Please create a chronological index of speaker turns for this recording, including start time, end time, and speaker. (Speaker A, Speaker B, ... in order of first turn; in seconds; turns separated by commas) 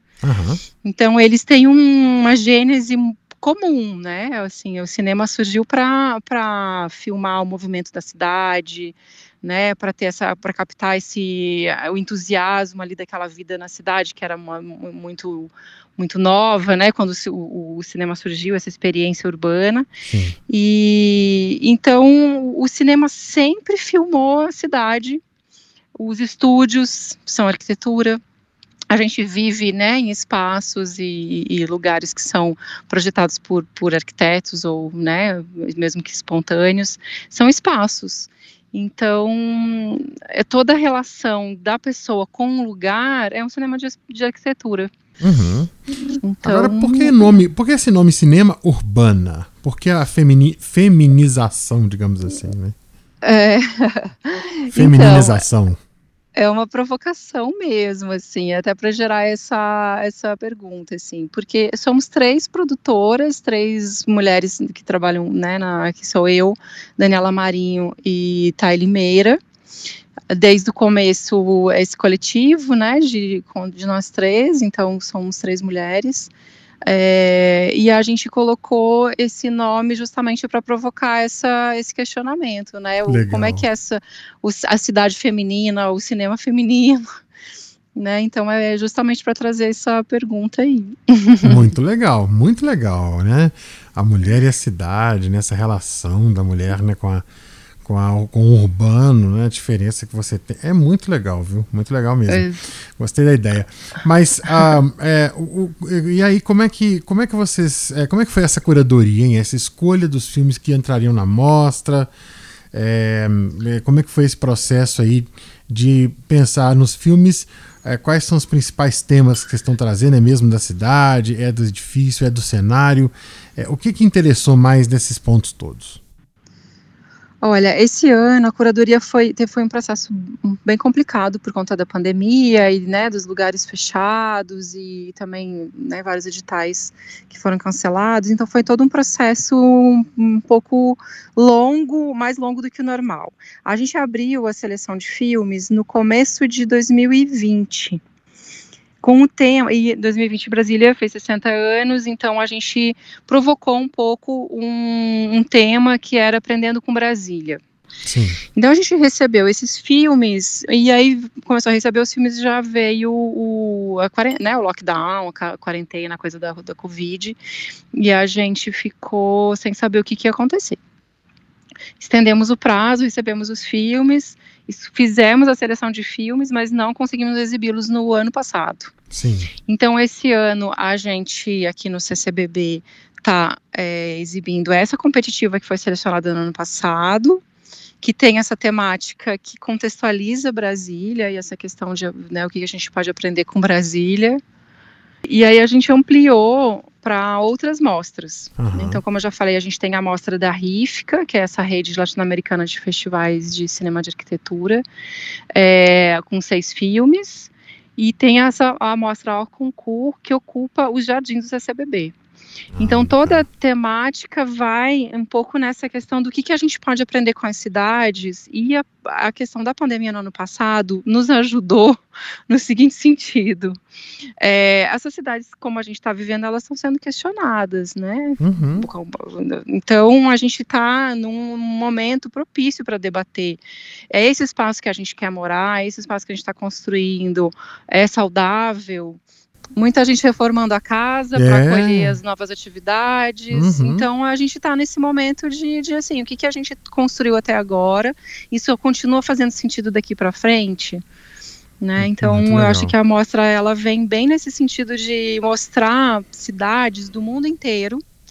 Speaker A: 0.2-0.6, Speaker B: 0.8-19.9, Speaker A: 20.0-20.4, Speaker B: 20.5-25.2, Speaker B: 25.9-28.2, Speaker B: 28.9-44.9, Speaker A: 45.2-45.7, Speaker B: 46.0-47.4, Speaker A: 46.4-52.7, Speaker B: 53.2-55.4, Speaker A: 54.7-55.8, Speaker B: 56.3-69.4, Speaker B: 70.3-76.3, Speaker B: 76.8-87.0, Speaker A: 83.1-83.6, Speaker B: 87.9-91.6, Speaker A: 91.4-97.2, Speaker A: 97.8-112.1, Speaker B: 102.3-102.6, Speaker A: 112.7-126.0, Speaker B: 127.4-148.0, Speaker B: 149.0-157.6, Speaker A: 158.0-158.4, Speaker B: 158.5-167.4, Speaker B: 167.9-170.8, Speaker B: 172.0-178.9, Speaker A: 179.1-179.5, Speaker B: 179.7-187.4, Speaker B: 188.0-194.4, Speaker B: 195.2-204.8, Speaker A: 198.6-199.0, Speaker B: 205.5-212.1, Speaker A: 212.7-213.4, Speaker B: 212.8-223.8, Speaker B: 224.4-239.2, Speaker A: 228.4-228.9, Speaker B: 239.8-251.0, Speaker A: 241.3-242.2, Speaker A: 243.5-244.1, Speaker B: 251.8-258.0, Speaker A: 252.0-252.9